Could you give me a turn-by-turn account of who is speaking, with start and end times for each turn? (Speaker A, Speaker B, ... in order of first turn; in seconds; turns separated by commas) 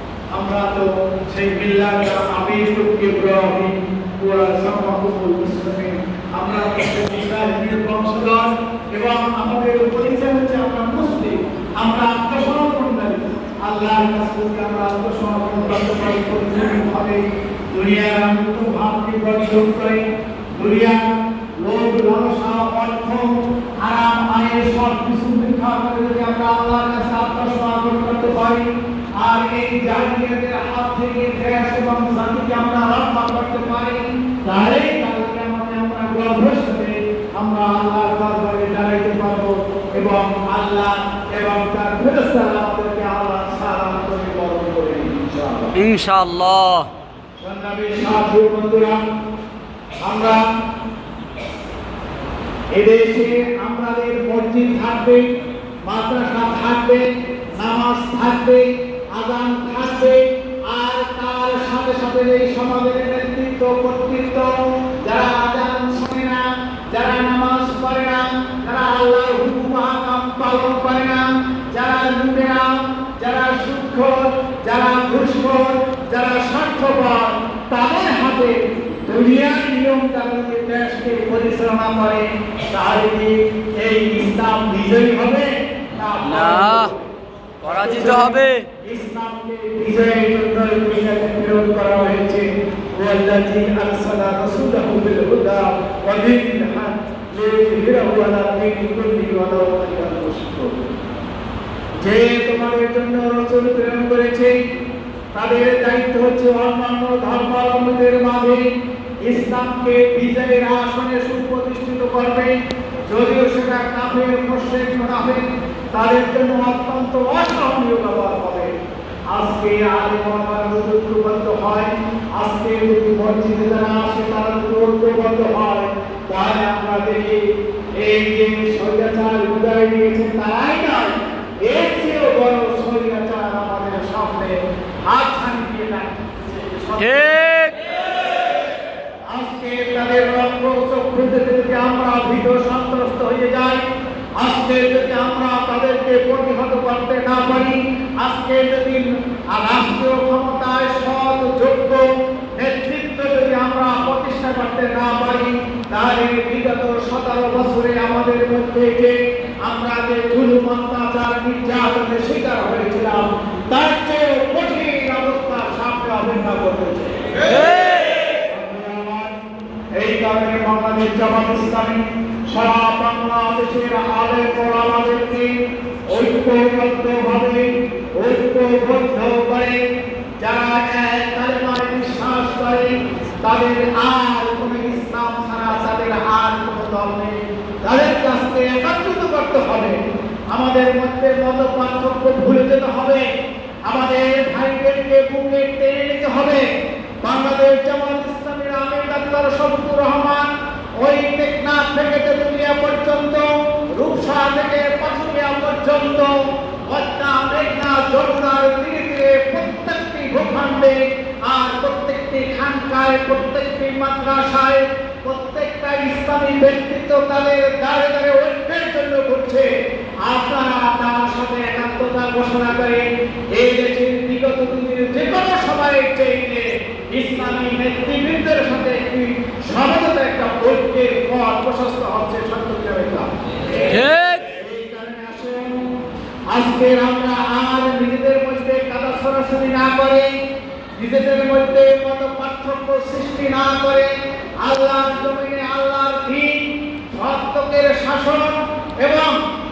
Speaker A: 0.3-45.8, Speaker B: 45.7-46.9, Speaker A: 47.4-49.0, Speaker A: 50.0-50.5, Speaker A: 52.7-55.3, Speaker A: 55.9-87.1, Speaker B: 86.3-86.9, Speaker A: 87.6-100.9, Speaker B: 87.6-88.7, Speaker A: 102.0-104.5, Speaker A: 105.3-108.7, Speaker A: 109.2-112.6, Speaker A: 113.1-118.7, Speaker A: 119.3-137.5, Speaker B: 137.0-137.9, Speaker A: 139.3-143.8, Speaker A: 144.4-169.4, Speaker A: 169.9-175.6, Speaker A: 176.1-179.8, Speaker A: 180.4-193.3, Speaker A: 193.8-196.6, Speaker A: 197.2-206.3, Speaker A: 206.9-219.7, Speaker A: 220.2-235.9, Speaker B: 233.8-234.4, Speaker A: 236.5-240.3, Speaker A: 241.0-249.4